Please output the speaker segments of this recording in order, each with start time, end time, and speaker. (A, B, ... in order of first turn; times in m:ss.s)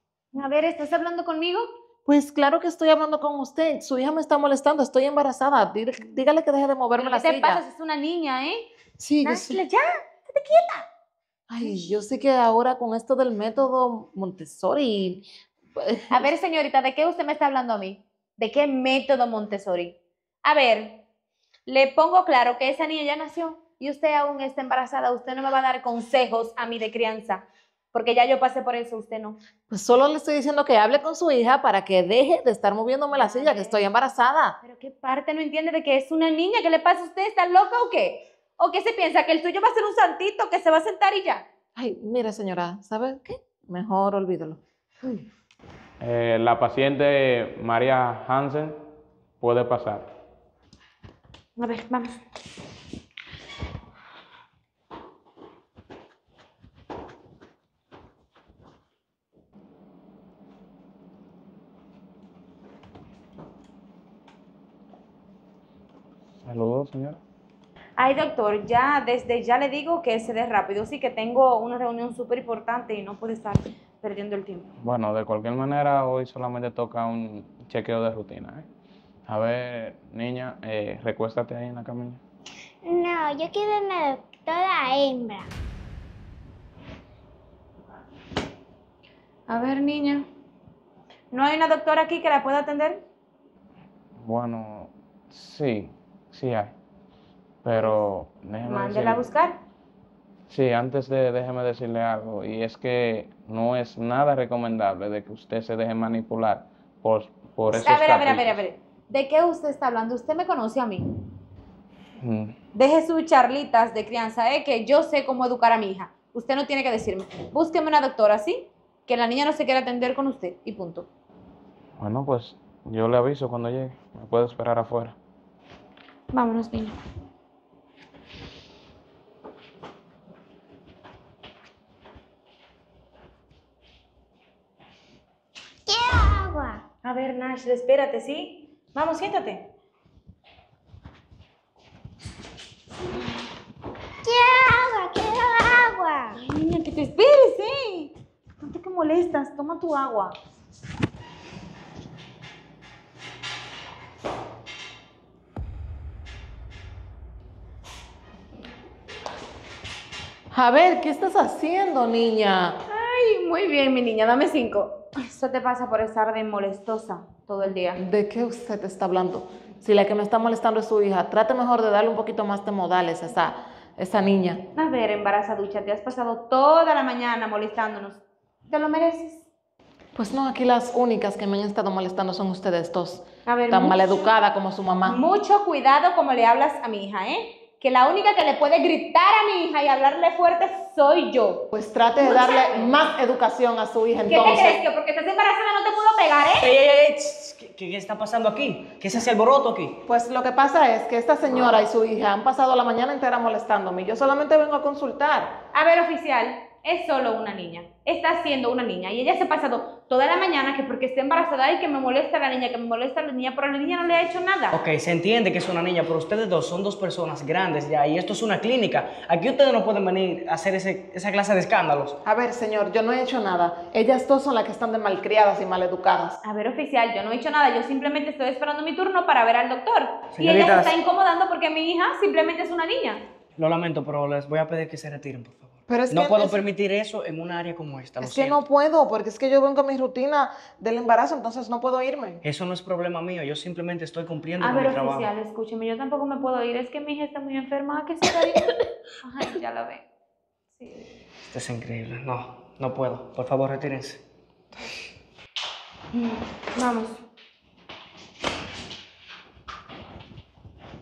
0:00.3-0:01.6 A
0:02.1-0:07.6 B
0:07.0-0:08.7 A
0:09.0-0:09.6 B
0:09.2-0:10.9 A
0:11.5-0:16.3 B
0:16.1-0:21.0 A
0:21.7-0:29.4 A
0:29.7-0:34.6 B
0:33.1-0:33.8 A
0:34.6-0:41.5 A
0:41.8-0:44.6 B
0:46.0-0:48.8 C
0:49.4-0:50.1 C
0:51.6-0:52.2 A
1:06.4-1:07.2 C
1:08.0-1:14.7 A
1:14.8-1:18.7 C
1:19.3-1:22.2 C
1:22.8-1:25.5 D
1:29.5-1:30.2 A
1:31.3-1:33.0 A
1:34.2-1:36.8 C
1:37.6-1:39.2 C
1:37.8-1:38.0 A
1:38.6-1:39.6 A
1:40.5-1:48.6 C
1:47.7-1:51.0 A
1:52.2-1:52.5 C
1:52.7-2:01.1 A
2:02.0-2:05.2 C
2:06.3-2:07.0 A
2:15.9-2:16.8 D
2:17.0-2:19.7 A
2:24.2-2:26.4 D
2:26.3-2:30.4 A
2:40.5-2:42.8 B
2:42.9-2:48.0 A
2:48.0-2:54.6 B
2:54.8-2:59.5 A
3:00.2-3:05.2 B
3:03.5-3:04.0 A
3:05.1-3:11.7 A
3:11.7-3:14.8 B
3:12.2-3:13.0 A
3:14.3-3:16.7 A
3:16.6-3:20.0 E
3:20.1-3:25.6 B
3:25.7-3:34.8 A
3:34.7-3:42.2 E
3:42.2-3:46.4 B
3:46.4-3:53.2 A
3:50.3-3:51.0 E
3:53.6-3:58.6 E
3:55.9-3:56.6 B
3:58.2-4:02.4 B
4:02.4-4:05.3 E
4:04.6-4:08.7 A
4:09.2-4:10.1 A
4:10.7-4:11.1 A
4:11.5-4:14.2 E
4:16.1-4:17.2 A